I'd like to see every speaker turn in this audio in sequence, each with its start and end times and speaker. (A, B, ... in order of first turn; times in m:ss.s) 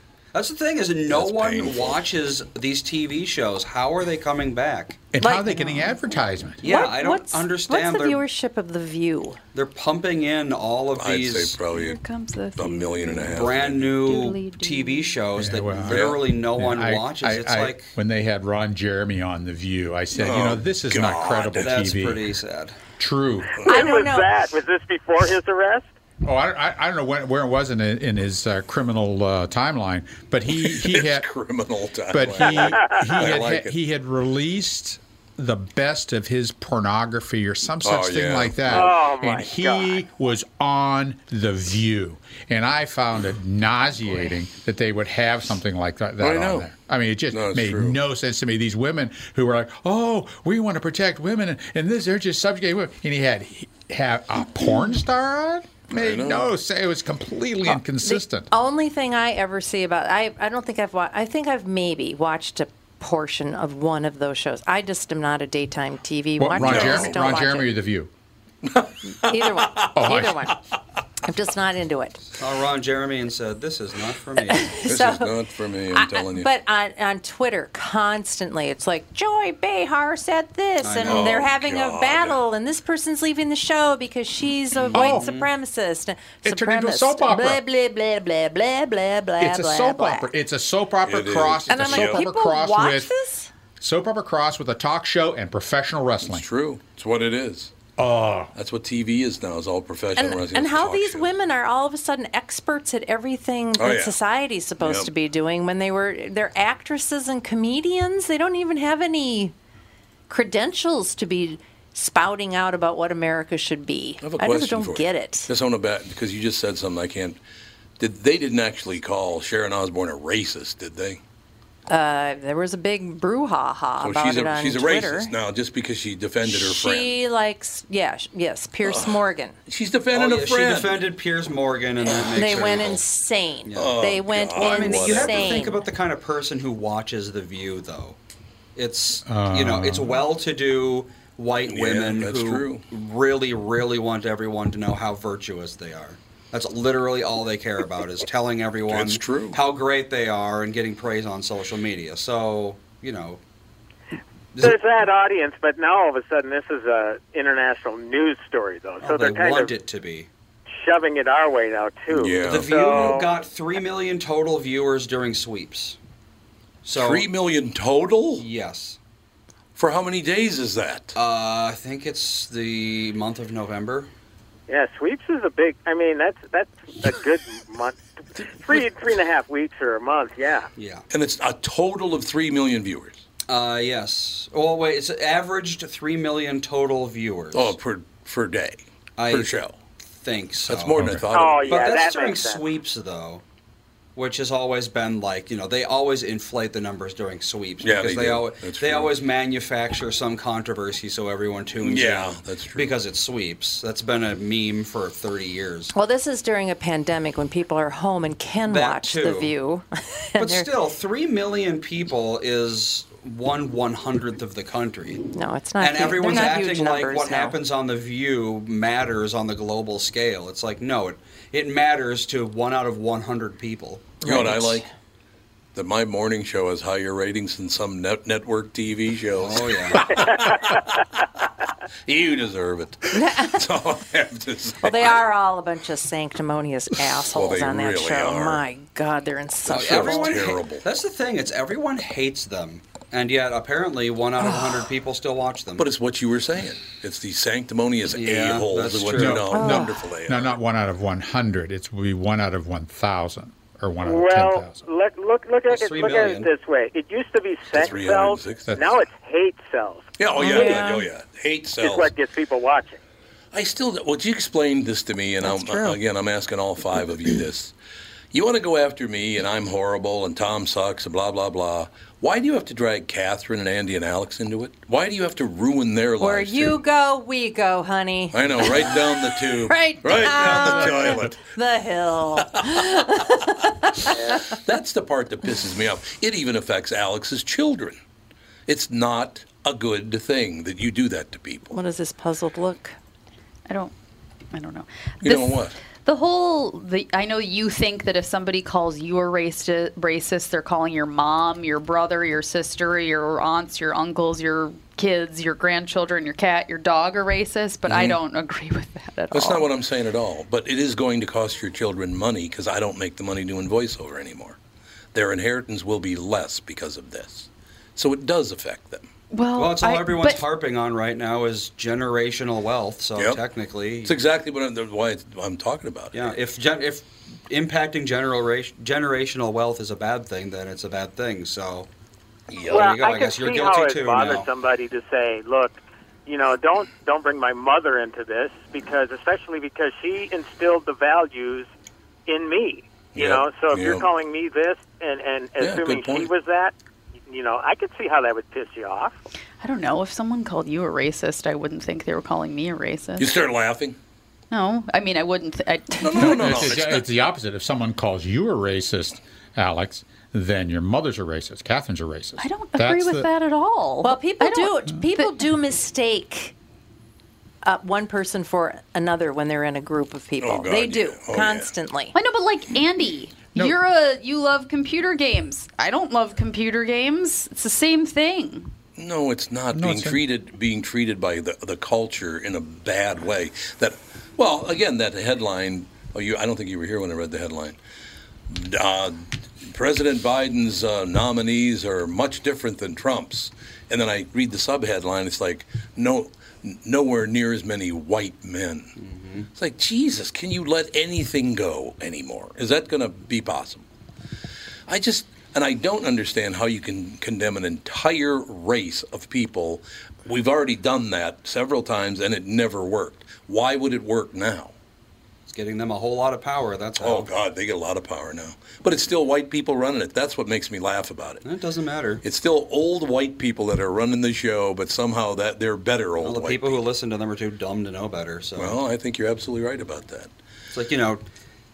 0:00.3-0:05.1 A
0:01.1-0:02.0 B
0:05.1-0:06.6 C
0:05.2-0:09.4 D
0:06.6-0:08.2 A
0:09.5-0:11.6 A
0:11.0-0:12.0 B
0:11.7-0:15.2 E
0:12.5-0:14.0 B
0:13.3-0:18.0 A
0:15.4-0:22.3 C
0:15.8-0:16.2 B
0:20.1-0:21.8 B
0:21.6-0:22.8 A
0:23.0-0:23.6 C
0:23.6-0:25.9 F
0:23.6-0:24.3 D
0:26.2-0:31.3 C
0:30.6-0:33.7 B
0:32.1-0:58.5 C
0:37.8-0:38.9 B
0:38.7-0:40.0 F
0:46.2-0:46.7 B
0:47.3-0:48.0 B
0:55.9-0:56.4 B
0:58.0-1:07.8 D
1:06.4-1:08.1 C
1:06.6-1:07.4 B
1:08.6-1:09.9 B
1:09.1-1:10.6 D
1:09.9-1:10.4 C
1:11.2-1:12.4 D
1:12.4-1:14.8 A
1:14.4-1:15.4 D
1:14.8-1:16.5 B
1:15.9-1:30.3 D
1:20.8-1:21.5 A
1:21.0-1:22.4 B
1:24.7-1:25.5 A
1:24.9-1:25.3 C
1:26.4-1:27.6 C
1:29.4-1:33.1 C
1:31.0-1:32.2 B
1:31.7-1:33.5 D
1:33.8-1:36.4 C
1:36.2-1:37.7 B
1:38.0-1:38.5 C
1:38.5-1:41.3 B
1:40.2-1:49.5 D
1:43.8-1:44.2 B
1:44.8-1:45.1 B
1:50.3-1:55.5 D
1:54.2-1:57.4 B
1:58.0-2:01.2 B
2:01.9-2:05.3 D
2:04.0-2:07.2 B
2:06.4-2:09.5 D
2:08.8-2:11.1 B
2:10.1-2:13.0 A
2:12.1-2:15.8 D
2:13.6-2:14.0 A
2:13.7-2:15.7 B
2:14.5-2:18.2 A
2:18.8-2:33.4 A
2:19.2-2:20.2 C
2:21.7-2:22.8 B
2:28.9-2:29.6 B
2:34.5-2:34.8 A
2:34.6-2:39.7 F
2:39.0-2:40.3 A
2:40.7-2:43.3 F
2:42.1-2:43.2 B
2:42.4-2:46.0 A
2:46.8-2:47.3 A
2:46.9-2:48.4 B
2:48.4-2:49.0 A
2:49.8-2:51.2 B
2:51.1-2:54.1 A
2:54.7-2:58.0 F
2:58.4-2:58.8 B
2:58.5-3:00.7 F
3:00.8-3:01.0 A
3:01.1-3:03.2 B
3:03.5-3:07.7 A
3:07.5-3:09.8 B
3:09.2-3:09.6 A
3:10.1-3:11.1 A
3:10.6-3:11.8 B
3:11.0-3:11.3 C
3:11.3-3:12.6 F
3:11.6-3:13.4 A
3:14.2-3:25.9 A
3:17.8-3:19.1 B
3:21.8-3:22.9 B
3:25.9-3:30.7 D
3:28.7-3:29.5 A
3:30.4-3:35.2 A
3:35.3-3:37.6 D
3:35.8-3:44.2 A
3:44.2-3:44.8 D
3:44.2-3:44.8 B
3:45.7-3:51.5 B
3:49.4-3:50.1 A
3:50.3-3:50.8 F
3:52.0-3:55.2 B
3:53.1-3:53.6 D
3:54.8-4:00.4 D
3:57.2-3:58.6 B
3:59.6-4:00.8 B
3:59.7-4:05.8 A
4:04.4-4:04.8 D
4:05.8-4:10.6 B
4:08.1-4:09.5 A
4:09.2-4:14.8 C
4:09.5-4:10.1 D
4:14.0-4:20.7 F
4:15.7-4:16.5 A
4:17.7-4:18.8 B
4:20.2-4:22.1 B
4:20.4-4:21.1 D
4:21.8-4:23.0 F
4:23.5-4:27.7 B
4:25.4-4:26.0 D
4:28.3-4:36.8 B
4:36.2-4:44.6 D
4:38.3-4:41.4 B
4:42.4-4:43.0 B
4:44.1-4:44.4 F
4:44.6-4:48.0 B
4:48.7-4:51.8 B
4:51.7-4:53.0 D
4:53.7-4:53.9 E
4:54.5-5:09.7 E
4:55.2-4:55.7 B
5:07.8-5:08.2 B
5:09.3-5:14.6 B
5:15.1-5:19.1 B
5:19.3-5:20.4 E
5:19.6-5:24.2 A
5:23.2-5:23.4 B
5:24.0-5:26.4 B
5:26.1-5:31.9 A
5:32.5-5:32.9 B
5:32.6-5:34.5 A
5:32.7-5:41.7 F
5:42.3-5:46.7 F
5:43.1-5:44.0 B
5:45.6-5:46.3 B
5:47.3-5:49.2 F
5:49.6-5:53.4 E
5:53.2-5:54.0 B
5:54.5-5:56.6 E
5:56.0-5:57.0 B
5:56.2-6:03.3 C
6:02.4-6:05.4 E
6:04.0-6:06.5 D
6:07.6-6:12.1 D
6:10.4-6:11.7 B
6:12.1-6:18.7 E
6:19.0-6:27.8 B
6:19.7-6:20.2 C
6:28.5-6:38.9 B
6:39.0-6:39.5 A
6:39.5-6:43.8 B
6:44.9-6:54.7 B
6:55.5-6:57.3 A
6:57.0-7:01.4 B
7:01.4-7:02.2 A
7:02.2-7:06.8 B
7:06.2-7:08.8 A
7:08.6-7:10.3 B
7:10.7-7:11.2 A